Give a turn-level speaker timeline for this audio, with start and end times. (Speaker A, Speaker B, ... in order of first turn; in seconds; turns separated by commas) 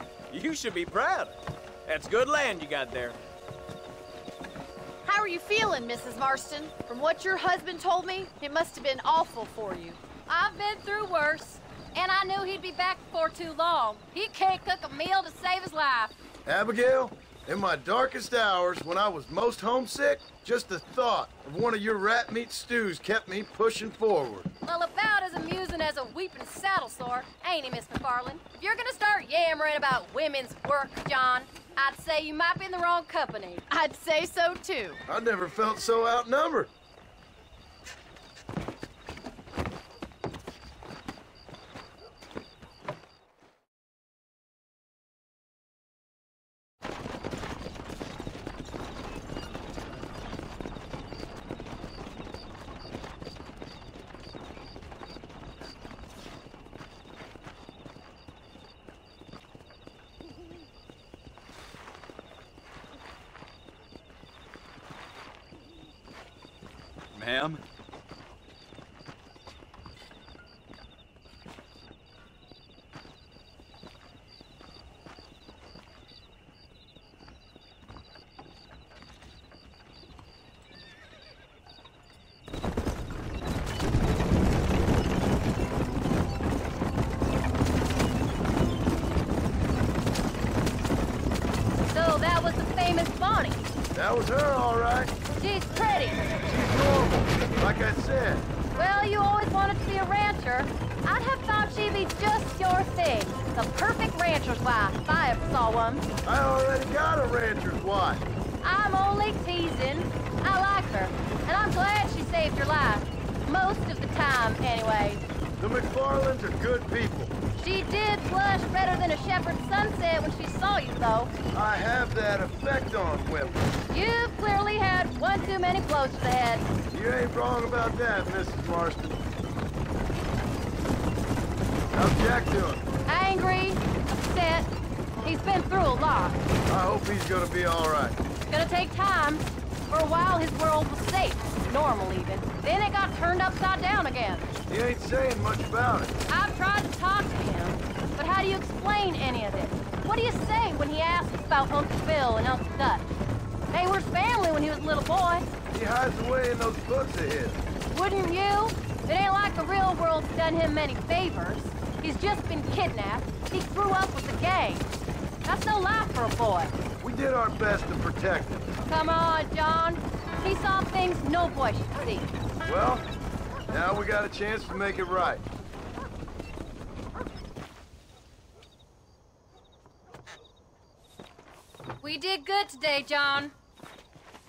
Speaker A: 0.3-1.3, Speaker A: 1.9-3.1, Speaker B: 5.0-10.0, Speaker C: 10.3-16.1, Speaker D: 16.4-24.5, Speaker C: 24.6-33.6, Speaker B: 33.7-35.0, Speaker D: 35.1-36.7, Speaker A: 67.1-67.6, Speaker C: 91.9-93.6, Speaker D: 93.9-95.1, Speaker C: 95.3-96.2, Speaker D: 96.4-98.5, Speaker C: 98.7-106.0, Speaker D: 106.2-108.2, Speaker C: 108.6-115.2, Speaker D: 115.6-117.3, Speaker C: 117.6-121.3, Speaker D: 121.5-123.7, Speaker C: 123.9-126.7, Speaker D: 126.9-129.2, Speaker D: 131.9-132.8, Speaker C: 133.1-134.7, Speaker C: 135.2-136.4, Speaker D: 136.7-138.2, Speaker C: 138.5-144.5, Speaker D: 144.7-146.1, Speaker C: 146.3-153.1, Speaker C: 153.7-155.5, Speaker D: 155.7-157.6, Speaker C: 157.9-164.9, Speaker C: 165.4-166.7, Speaker D: 167.0-168.8, Speaker C: 168.9-172.3, Speaker D: 172.6-173.0, Speaker D: 173.7-175.4, Speaker C: 182.0-183.5